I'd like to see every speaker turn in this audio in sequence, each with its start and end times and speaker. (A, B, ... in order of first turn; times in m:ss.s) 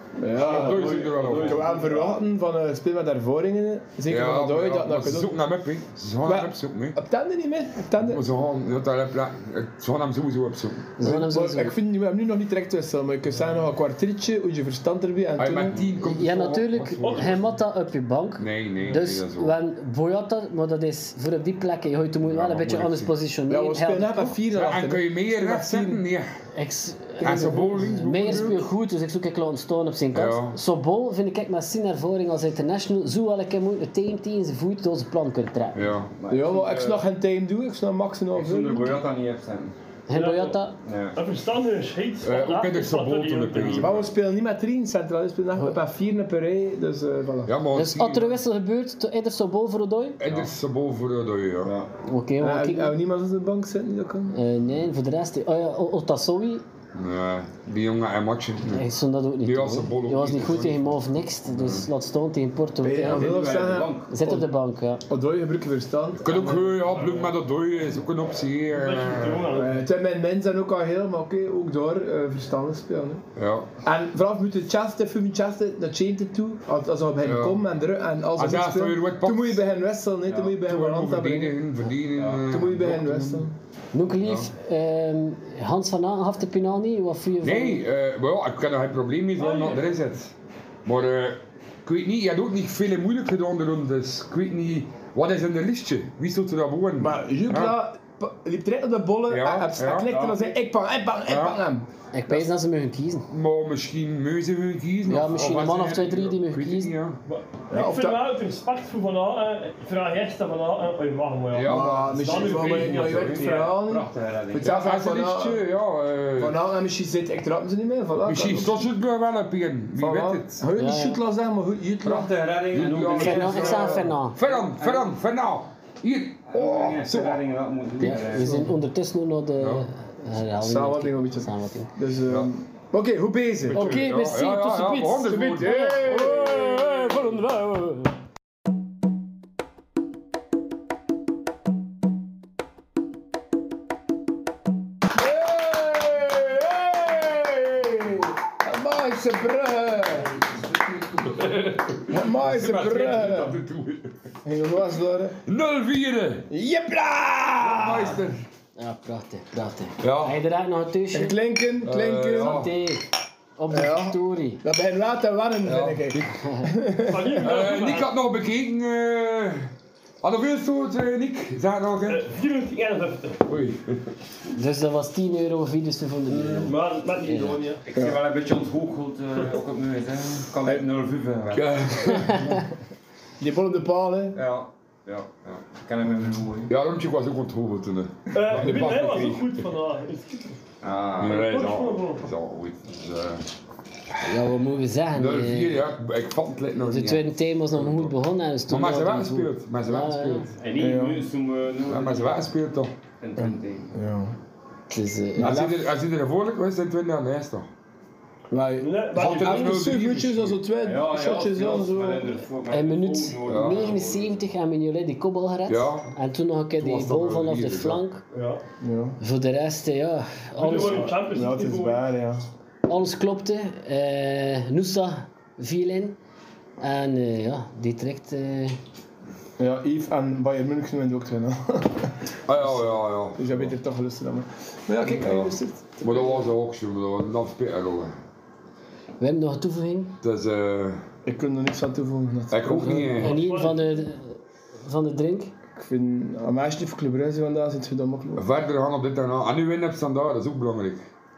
0:00.2-0:05.4 A
0:00.3-0:02.2 B
0:00.3-0:01.7 C
0:04.1-0:07.0 C
0:06.2-0:08.2 A
0:08.0-0:10.9 C
0:11.0-0:11.8 D
0:11.0-0:15.8 A
0:13.3-0:13.6 E
0:15.4-0:17.4 C
0:16.0-0:24.4 D
0:17.0-0:17.3 E
0:18.4-0:19.6 C
0:22.2-0:23.1 C
0:23.5-0:26.0 A
0:24.5-0:26.3 C
0:26.5-0:36.0 D
0:27.2-0:28.6 C
0:27.2-0:28.4 A
0:30.1-0:30.6 C
0:35.7-0:36.1 C
0:36.1-0:37.1 B
0:36.3-0:39.0 A
0:38.3-0:39.7 B
0:40.1-0:40.7 D
0:40.1-0:43.9 E
0:40.8-0:41.2 B
0:42.2-0:44.1 C
0:43.7-0:47.6 A
0:47.4-0:48.4 C
0:47.7-0:50.2 D
0:50.2-0:51.7 C
0:51.6-0:51.9 B
0:52.0-0:53.0 D
0:52.4-0:54.3 A
0:54.3-0:56.6 D
0:56.9-0:58.9 C
0:58.7-1:03.4 D
0:59.4-1:01.8 C
1:02.8-1:04.4 A
1:03.0-1:04.1 B
1:04.1-1:05.0 D
1:05.1-1:06.6 A
1:06.2-1:09.5 C
1:06.9-1:07.3 B
1:08.7-1:09.8 E
1:09.5-1:13.2 A
1:13.4-1:13.7 C
1:13.8-1:21.6 A
1:17.2-1:17.6 C
1:18.3-1:19.6 C
1:20.3-1:20.6 B
1:20.6-1:23.5 C
1:22.2-1:22.5 B
1:22.4-1:23.5 A
1:23.9-1:27.8 D
1:24.0-1:24.5 C
1:27.4-1:37.8 C
1:29.4-1:29.9 E
1:37.0-1:42.4 A
1:39.3-1:40.2 C
1:40.1-1:40.6 B
1:41.2-1:41.6 C
1:42.1-1:43.3 D
1:43.3-1:47.2 C
1:45.1-1:46.9 D
1:47.2-1:53.7 E
1:47.7-1:48.2 A
1:51.5-1:53.5 C
1:51.7-1:55.6 A
1:52.9-1:54.8 B
1:54.6-1:56.6 C
1:56.4-1:58.8 A
1:58.2-2:00.6 C
2:00.0-2:02.3 A
2:00.8-2:01.2 D
2:02.0-2:05.2 B
2:02.0-2:07.4 C
2:03.1-2:04.4 D
2:06.5-2:08.8 B
2:08.0-2:11.9 D
2:08.1-2:08.6 A
2:09.6-2:09.9 C
2:10.6-2:14.0 A
2:12.2-2:12.5 C
2:13.6-2:17.3 C
2:13.7-2:18.1 D
2:15.2-2:16.8 A
2:25.1-2:30.3 A
2:31.2-2:34.1 C
2:32.0-2:33.6 A
2:34.4-2:35.4 A
2:35.4-2:36.5 C
2:36.5-2:38.4 A
2:37.6-2:38.3 C
2:38.8-2:41.4 D
2:40.0-2:40.4 C
2:41.1-2:42.6 A
2:41.8-2:42.7 C
2:42.3-2:43.0 D
2:43.6-2:44.6 D
2:43.7-2:47.4 A
2:45.6-2:46.4 C
2:46.4-2:46.7 D
2:47.0-2:48.1 E
2:47.4-2:52.2 C
2:52.1-2:53.4 E
2:53.4-2:54.1 C
2:54.5-2:57.6 D
2:56.3-2:56.7 B
2:56.6-2:57.8 E
2:57.9-3:01.7 B
3:01.5-3:02.6 C
3:02.3-3:02.6 D
3:03.4-3:04.4 A
3:04.3-3:06.7 B
3:06.7-3:09.5 C
3:08.3-3:10.6 E
3:10.8-3:11.4 B
3:11.2-3:13.4 C
3:11.2-3:12.2 E
3:14.2-3:15.9 D
3:15.1-3:18.1 C
3:16.8-3:20.5 D
3:18.7-3:20.5 C
3:20.6-3:22.5 B
3:20.8-3:21.2 A
3:21.9-3:22.9 C
3:23.2-3:24.0 B
3:23.4-3:24.4 A
3:24.9-3:25.6 D
3:25.4-3:25.8 A
3:25.4-3:27.7 C
3:28.5-3:32.4 A
3:28.8-3:29.8 E
3:29.1-3:30.7 C
3:30.8-3:34.4 B
3:32.7-3:38.2 D
3:33.4-3:33.9 C
3:35.7-3:36.1 C
3:36.8-3:38.0 C
3:38.3-3:38.6 E
3:38.8-3:39.2 A
3:39.2-3:41.1 D
3:40.6-3:42.1 E
3:40.6-3:42.5 A
3:42.9-3:46.2 D
3:46.8-3:48.8 D
3:49.6-3:56.5 A
3:52.5-3:53.7 C
3:55.1-3:58.1 C
3:59.2-4:00.2 D
4:00.2-4:01.0 C
4:01.2-4:03.2 A
4:02.5-4:03.5 C
4:02.6-4:05.5 D
4:03.2-4:03.8 E
4:05.8-4:08.4 A
4:08.4-4:11.1 C